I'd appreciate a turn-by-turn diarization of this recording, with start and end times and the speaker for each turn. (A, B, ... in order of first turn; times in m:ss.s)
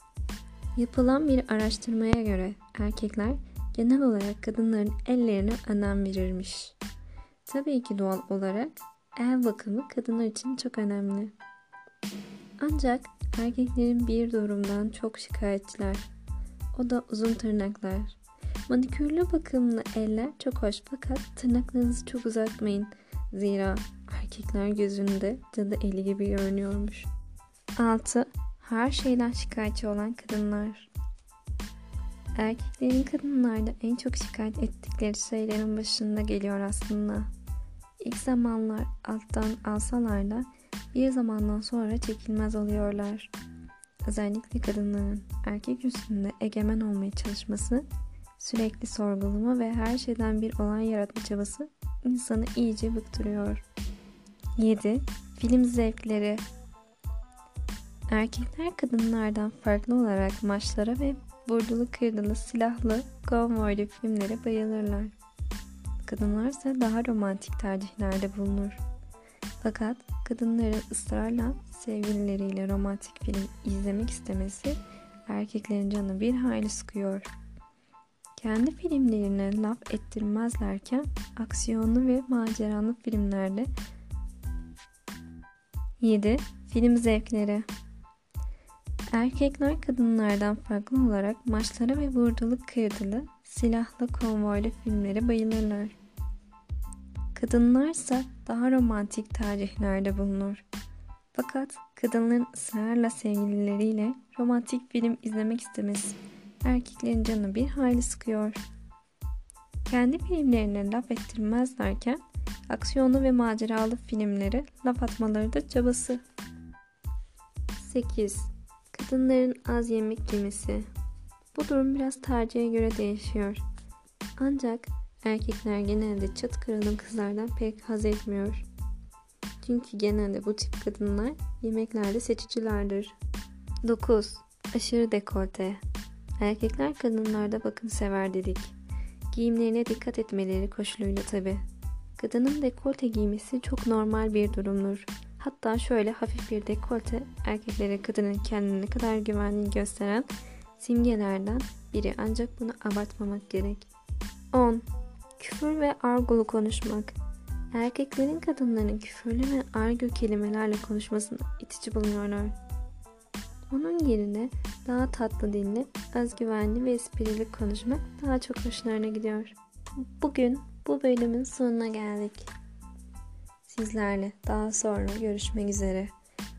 0:00.8-0:06.8 A
0:07.5-0:11.3 A
0:12.6-0:16.1 A
0:16.7-0:27.1 A
0:27.8-0:30.9 A
0:32.4-0:37.3 A
0:38.0-0:43.3 A
0:44.0-0:47.9 A
0:48.4-0:53.6 A
0:54.6-0:56.4 A
0:58.1-1:05.2 A
1:06.0-1:08.8 A
1:09.6-1:17.3 A
1:18.4-1:23.7 A
1:26.0-1:27.7 A
1:29.1-1:36.0 A
1:37.3-1:40.6 A
1:41.3-1:48.6 A
1:49.8-1:56.2 A
1:57.8-2:00.9 A
2:01.5-2:03.6 A
2:04.4-2:08.7 A
2:09.6-2:13.2 A
2:13.8-2:15.8 A
2:16.4-2:18.8 A
2:19.3-2:21.6 A
2:22.2-2:33.9 A
2:34.5-2:34.9 A
2:35.4-2:37.2 A
2:37.7-2:42.6 A
2:43.7-2:52.5 A
2:53.7-2:56.1 A